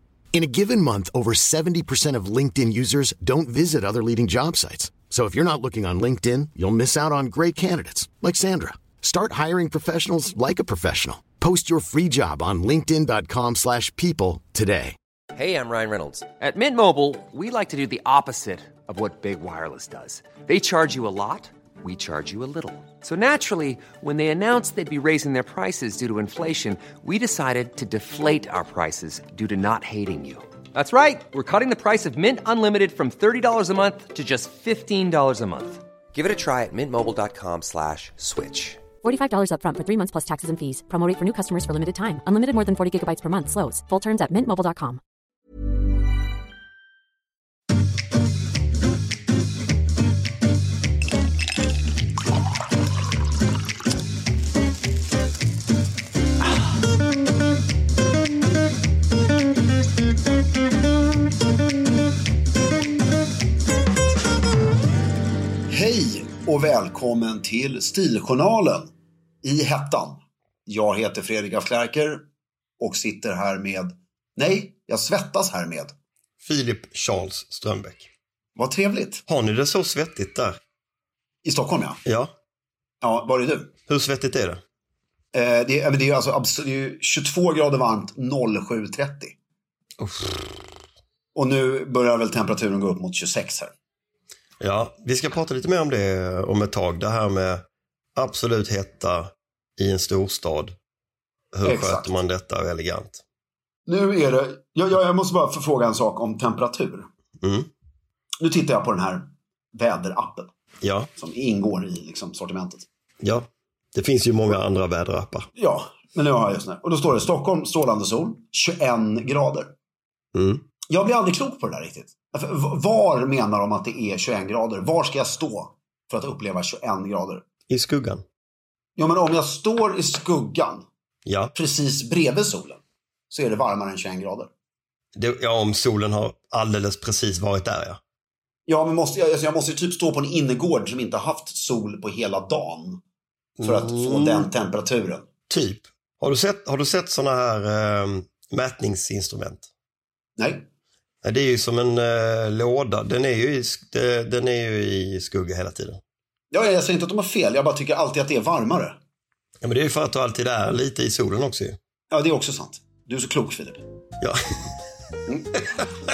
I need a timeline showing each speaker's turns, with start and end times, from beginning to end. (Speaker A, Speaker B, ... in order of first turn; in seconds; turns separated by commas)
Speaker A: 0.3-14.9, Speaker B: 15.3-38.9, Speaker C: 39.0-45.0, Speaker D: 65.7-68.9, Speaker D: 69.4-72.2, Speaker D: 72.8-75.9, Speaker E: 76.4-78.1, Speaker D: 78.5-79.2, Speaker E: 79.3-80.6, Speaker D: 81.4-82.0, Speaker E: 82.0-82.3, Speaker D: 83.0-83.7, Speaker E: 83.9-84.6, Speaker D: 85.3-89.3, Speaker E: 90.0-90.5, Speaker D: 91.3-93.7, Speaker E: 94.6-100.7, Speaker E: 101.5-103.2, Speaker D: 101.6-102.2, Speaker D: 103.8-107.1, Speaker E: 107.4-107.7, Speaker D: 108.4-110.5, Speaker E: 110.8-111.1, Speaker D: 111.2-112.8, Speaker E: 113.2-115.5, Speaker D: 115.6-119.7, Speaker E: 120.3-120.6, Speaker D: 120.9-127.4, Speaker E: 127.7-128.2, Speaker D: 128.9-130.8, Speaker E: 131.2-131.5, Speaker D: 131.5-134.5, Speaker E: 135.1-138.0, Speaker D: 138.7-143.0, Speaker E: 143.6-144.5, Speaker D: 143.6-145.2, Speaker E: 145.5-149.7, Speaker D: 150.4-150.7, Speaker E: 151.2-156.0, Speaker D: 156.5-159.0, Speaker E: 159.6-161.8, Speaker D: 162.1-163.8